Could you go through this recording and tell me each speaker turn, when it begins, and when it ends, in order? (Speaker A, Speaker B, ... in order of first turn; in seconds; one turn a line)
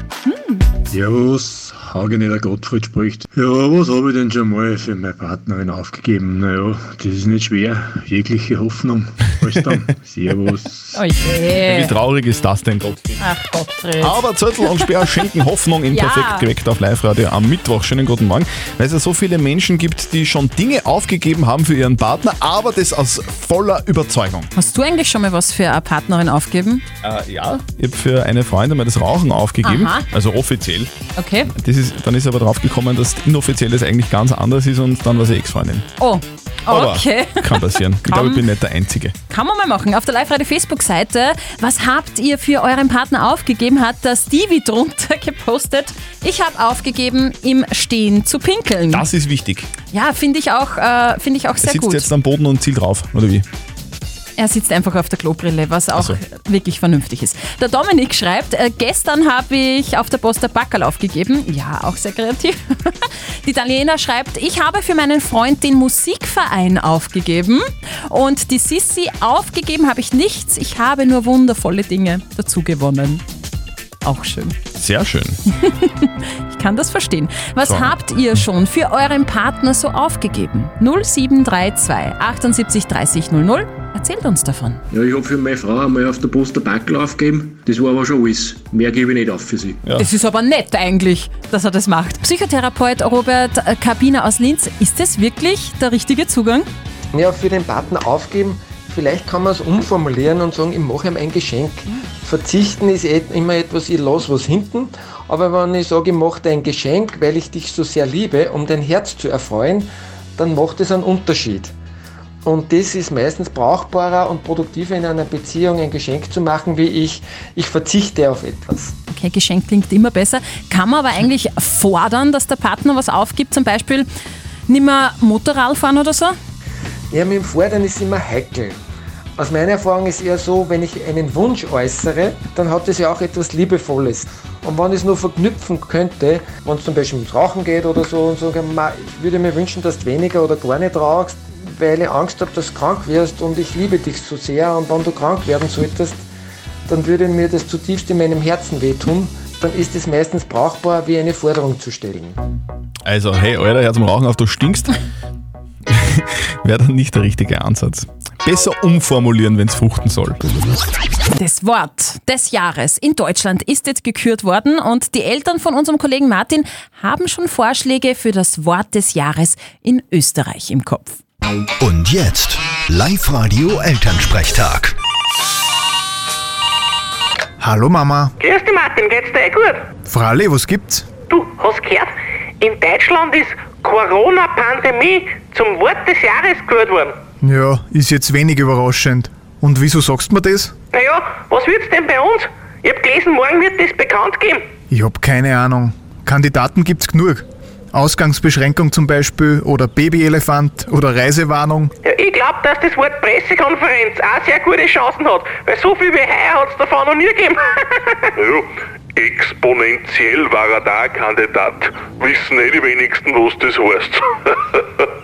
Speaker A: 0.2-0.7
Speaker B: 0.9-11.0
Speaker A: 10.9-11.9
Speaker C: 11.6-13.2
Speaker A: 13.2-14.2
Speaker C: 14.0-24.5
Speaker A: 15.9-16.5
Speaker A: 24.6-26.8
Speaker C: 27.0-30.9
Speaker A: 29.6-30.0
Speaker A: 31.1-31.5
Speaker C: 31.5-35.8
Speaker A: 36.0-38.4
Speaker C: 36.7-39.1
Speaker A: 39.3-49.0
Speaker C: 48.9-49.7
Speaker A: 49.9-52.1
Speaker C: 51.6-53.5
Speaker A: 54.4-73.2
Speaker C: 55.9-56.2
Speaker A: 74.0-74.5
Speaker C: 74.7-75.4
Speaker A: 75.5-84.8
Speaker C: 77.6-78.0
Speaker C: 89.8-90.1
Speaker A: 89.9-96.7
Speaker D: 97.1-111.7
Speaker D: 112.4-118.9
Speaker A: 119.1-124.1
Speaker A: 124.7-126.3
Speaker D: 127.1-128.8
Speaker D: 129.4-146.2
Speaker D: 146.9-152.4
Speaker C: 153.1-155.0
Speaker C: 155.9-160.4
Speaker A: 161.3-171.2
Speaker E: 171.8-174.9
Speaker F: 177.6-178.3
Speaker G: 178.4-179.9
Speaker F: 180.0-181.1
Speaker G: 181.3-187.2
Speaker F: 187.4-190.7
Speaker G: 190.9-194.7
Speaker F: 194.9-201.9
Speaker G: 202.0-208.3
Speaker H: 208.4-214.8